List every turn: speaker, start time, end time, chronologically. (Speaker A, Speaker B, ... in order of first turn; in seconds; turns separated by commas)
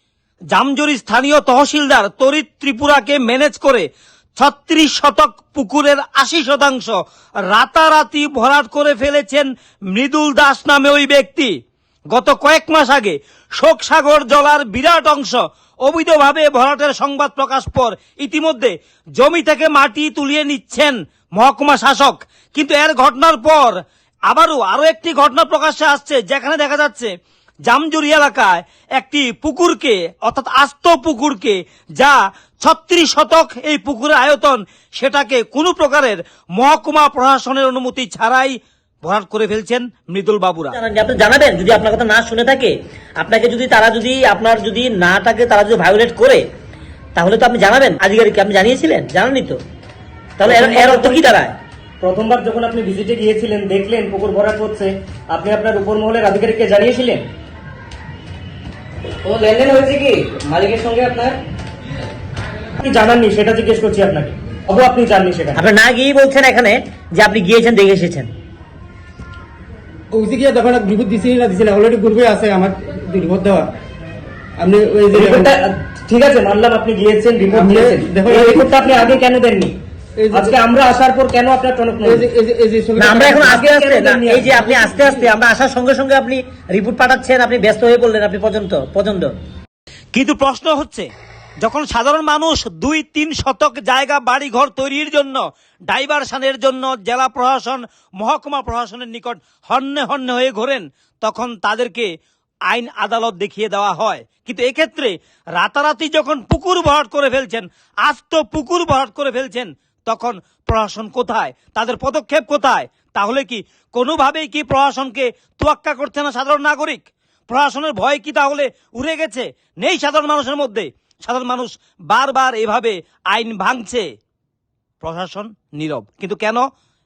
Speaker A: 0.5-7.0, Speaker A: 7.5-11.5, Speaker A: 12.1-27.1, Speaker A: 27.7-40.8, Speaker B: 40.7-46.4, Speaker B: 47.2-49.6, Speaker B: 50.4-51.5, Speaker C: 50.4-51.4, Speaker C: 52.0-57.2, Speaker C: 59.2-61.4, Speaker C: 62.8-65.6, Speaker B: 65.6-68.3, Speaker D: 70.1-73.7, Speaker D: 74.6-75.5, Speaker C: 75.1-79.8, Speaker D: 77.5-78.7, Speaker D: 80.2-80.5, Speaker C: 80.3-82.3, Speaker D: 82.0-83.5, Speaker B: 83.0-89.3, Speaker C: 83.4-84.5, Speaker D: 84.6-85.0, Speaker A: 90.1-91.1, Speaker A: 91.6-102.1, Speaker A: 102.7-124.1, Speaker A: 125.0-126.7